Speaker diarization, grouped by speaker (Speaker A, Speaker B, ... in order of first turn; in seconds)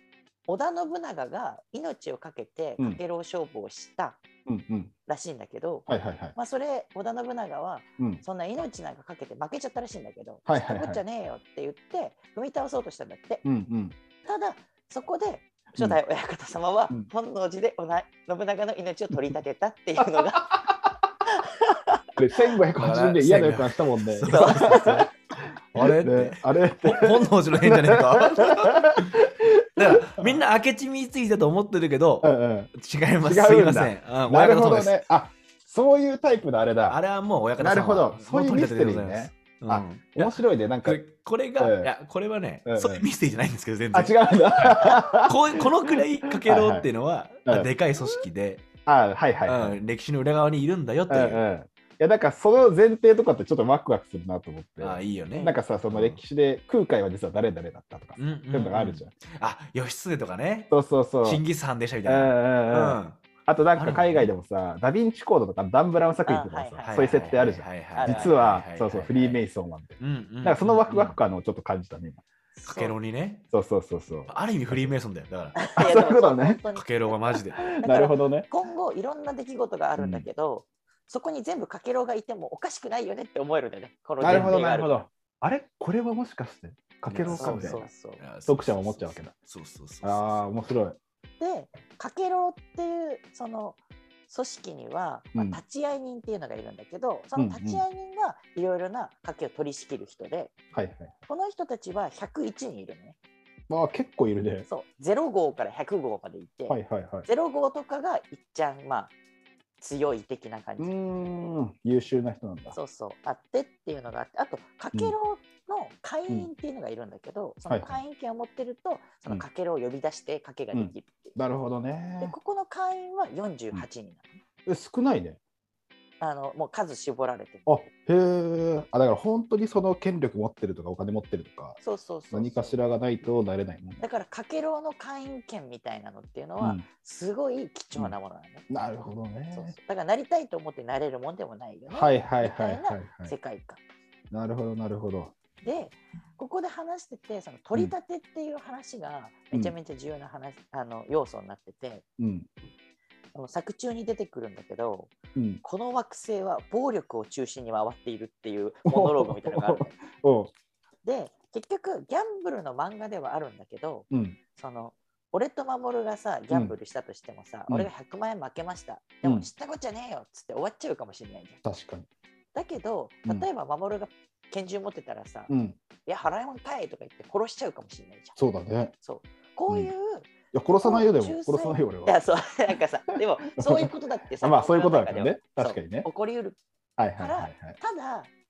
Speaker A: 0.5-4.2, 5.1-13.4, 14.2-20.6, 21.3-22.0, 24.3-25.1, 66.2-67.3, 68.0-68.3, 72.5-73.0, 75.6-85.0, 87.3-88.2, 91.4-100.5, 101.3-103.2, 104.7-109.1, 109.8-110.9, 112.7-121.4, 122.2-124.3, 126.2-127.7, 131.8-132.8, 134.0-138.7, 139.5-143.8, 145.6-152.0, 153.3-155.1, 155.6-159.9, 161.0-171.6, 172.5-175.5, 176.1-178.4, 179.0-186.6, 187.2-188.3
Speaker B: 4.5-4.9, 5.9-6.4, 10.5-11.0, 13.4-14.0, 22.2-25.1, 25.8-30.4, 32.2-32.7, 33.2-37.0, 37.6-41.0, 41.6-41.9, 42.7-43.0, 43.9-46.9, 47.5-48.2, 48.9-49.8, 51.1-59.1, 60.7-61.4, 62.0-72.2, 73.5-74.9, 75.8-76.6, 77.6-78.5, 80.0-80.3, 84.2-87.9, 88.5-89.3, 90.0-91.0, 95.3-95.6, 97.4-97.8, 100.7-101.1, 103.7-104.7, 106.7-107.3, 110.8-112.8, 117.7-118.0, 120.7-122.3, 124.7-125.4, 127.7-131.8, 132.3-134.0, 136.6-136.8, 138.7-139.7, 141.9-143.3, 144.3-145.3, 152.2-152.5, 155.3-155.6, 158.9-160.5, 164.1-164.4, 166.5-166.8, 169.2-169.5, 171.6-172.1, 175.5-175.8, 178.4-178.9, 180.5-182.2, 183.6-186.1, 187.0-187.8
Speaker C: 22.8-25.1, 25.7-29.2, 29.8-35.0, 36.9-48.7, 49.5-51.4, 54.8-56.2, 58.2-63.2, 63.8-64.3, 66.8-69.4, 70.0-71.2, 72.7-73.5, 74.3-75.7, 76.7-77.7, 84.2-84.6, 87.1-90.5